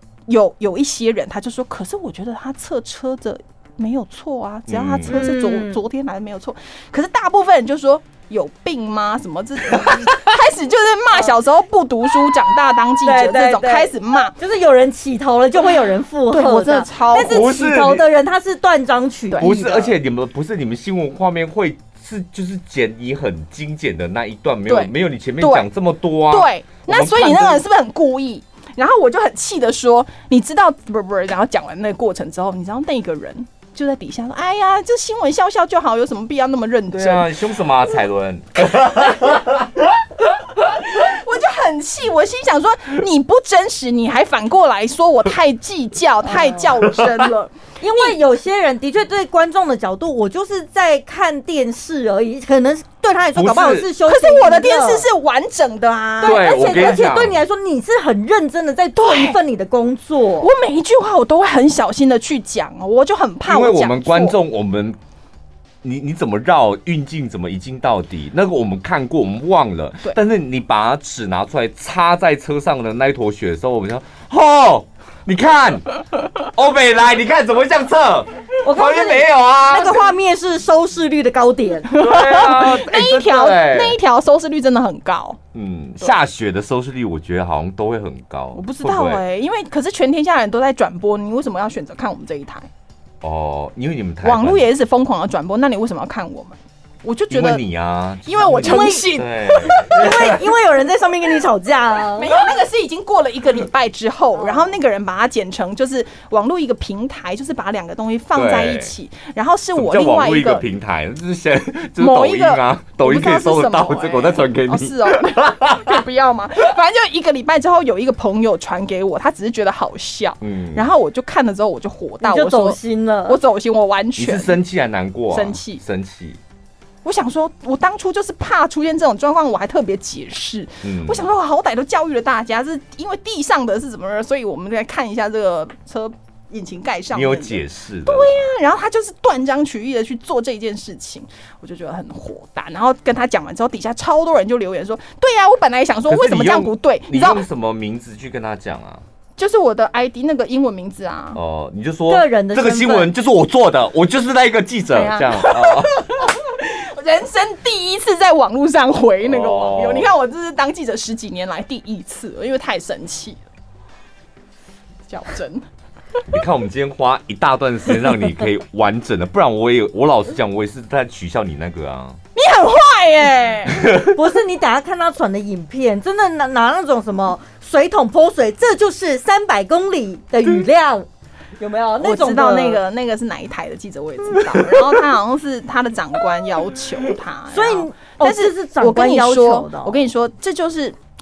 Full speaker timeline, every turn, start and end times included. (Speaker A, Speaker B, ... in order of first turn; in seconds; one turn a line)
Speaker A: 0.3-14.3
Speaker B: 4.7-5.2
Speaker C: 5.1-5.8
Speaker B: 9.7-10.2
Speaker C: 13.0-19.5
Speaker A: 15.6-17.6
Speaker B: 17.1-18.0
Speaker A: 19.3-19.9
Speaker B: 19.4-27.6
Speaker A: 24.7-25.7
Speaker A: 26.3-37.4
Speaker B: 36.9-39.8
Speaker A: 38.6-39.4
Speaker A: 40.5-48.1
Speaker C: 46.2-46.7
Speaker B: 47.0-47.2
Speaker C: 47.8-55.0
Speaker B: 53.3-53.9
Speaker A: 54.0-57.0
Speaker C: 56.2-60.5
Speaker B: 56.2-57.4
Speaker A: 59.0-59.4
Speaker A: 60.4-64.4
Speaker B: 63.5-65.0
Speaker B: 65.8-80.0
Speaker C: 78.6-82.0
Speaker A: 81.9-85.4
Speaker B: 81.9-84.0
Speaker B: 85.5-89.2
Speaker A: 88.5-92.7
Speaker B: 93.2-94.7
Speaker A: 94.2-97.6
Speaker B: 97.3-100.4
Speaker A: 98.2-100.0
Speaker C: 98.6-99.1
Speaker C: 99.6-102.3
Speaker A: 102.2-110.7
Speaker C: 104.3-104.7
Speaker B: 108.3-108.9
Speaker B: 109.8-116.0
Speaker A: 112.0-124.6
Speaker B: 120.4-120.9
Speaker C: 122.2-123.4
Speaker B: 124.2-126.4
Speaker A: 125.3-125.8
Speaker A: 127.0-147.4
Speaker B: 130.8-131.3
Speaker B: 137.1-138.5
Speaker B: 146.1-149.0
Speaker A: 149.4-151.4
Speaker B: 151.3-156.1
Speaker C: 152.1-153.1
Speaker A: 154.9-163.4
Speaker B: 159.2-160.1
Speaker A: 165.1-165.6
Speaker B: 166.3-172.2
Speaker A: 172.3-173.9
Speaker B: 173.7-174.1
Speaker C: 174.0-182.8
Speaker A: 182.0-191.0
Speaker C: 187.5-190.0